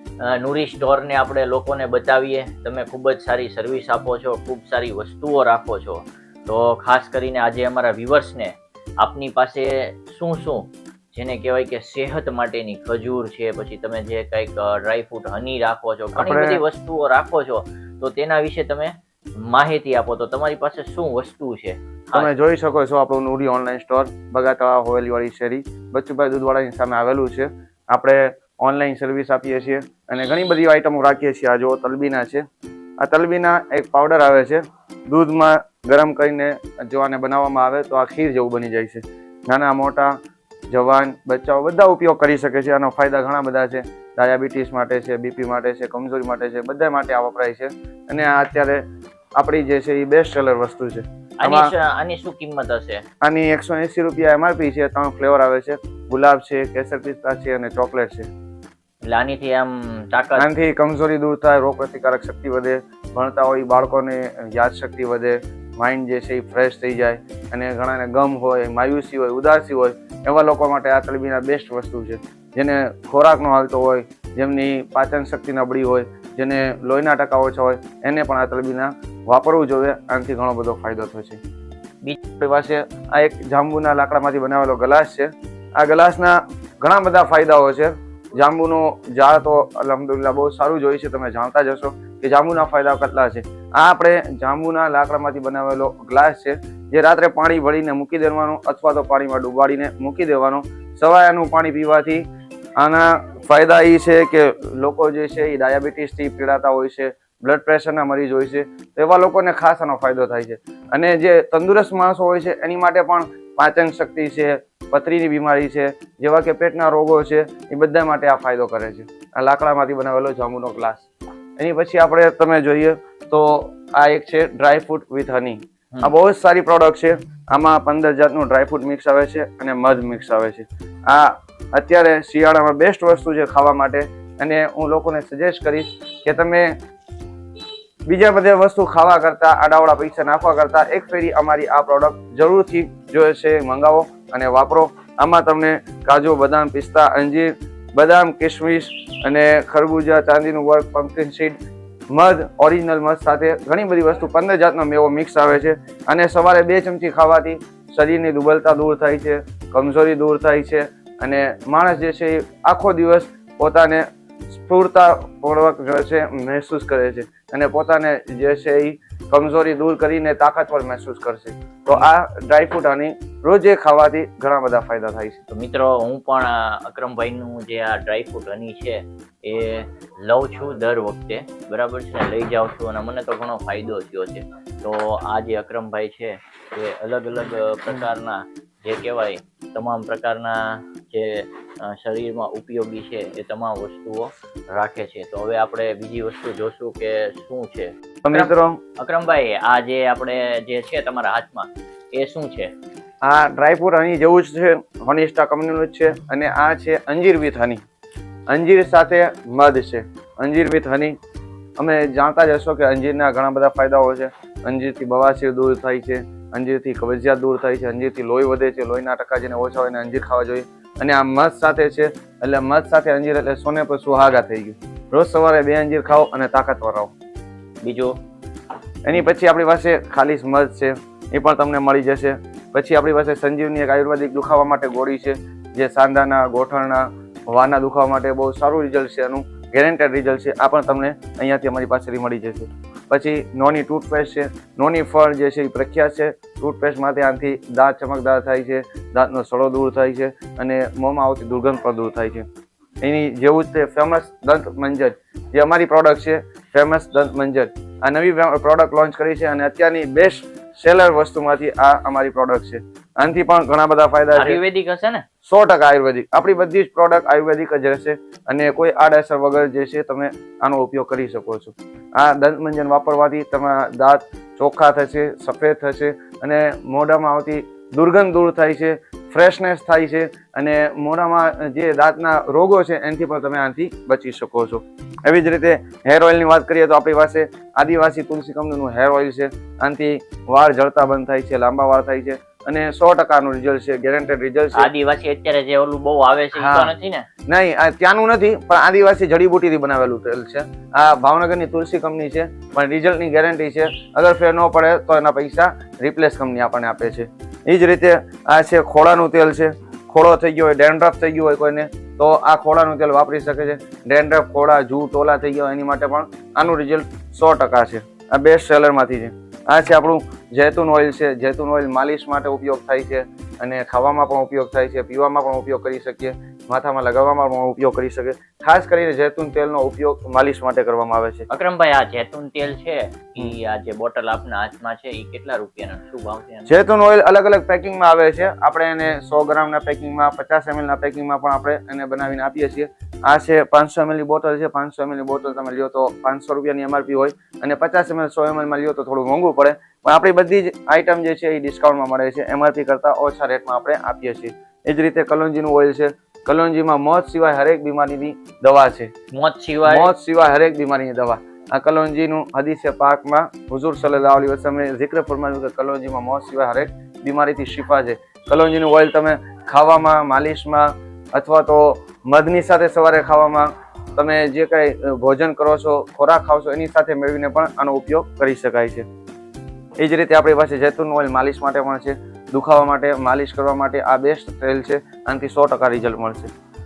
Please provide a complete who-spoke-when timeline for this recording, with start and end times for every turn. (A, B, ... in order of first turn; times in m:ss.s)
0:00.2-0:22.3 A
0:16.2-0:16.6 B
0:22.1-0:32.4 B
0:33.0-0:40.1 B
0:40.7-0:48.8 B
0:49.4-0:51.7 B
0:51.4-0:53.0 A
0:53.2-0:58.3 B
0:59.0-1:00.4 A
1:00.4-1:21.4 B
1:22.4-1:42.2 B
1:42.8-2:16.8 B
2:18.1-2:31.6 B
2:32.1-2:55.4 B
2:55.5-3:22.7 A
3:18.2-3:18.8 B
3:23.2-3:27.8 B
3:28.5-3:31.2 B
3:31.8-3:47.1 B
3:47.8-3:48.2 A
3:49.0-4:12.4 B
4:13.0-4:24.6 B
4:24.3-4:25.2 A
4:25.4-4:54.9 B
4:54.7-4:57.3 A
4:56.6-4:56.9 B
4:57.5-5:31.4 B
5:31.5-5:36.7 A
5:36.7-5:59.1 B
5:59.3-6:00.1 A
5:59.8-6:19.0 B
6:20.0-6:26.5 B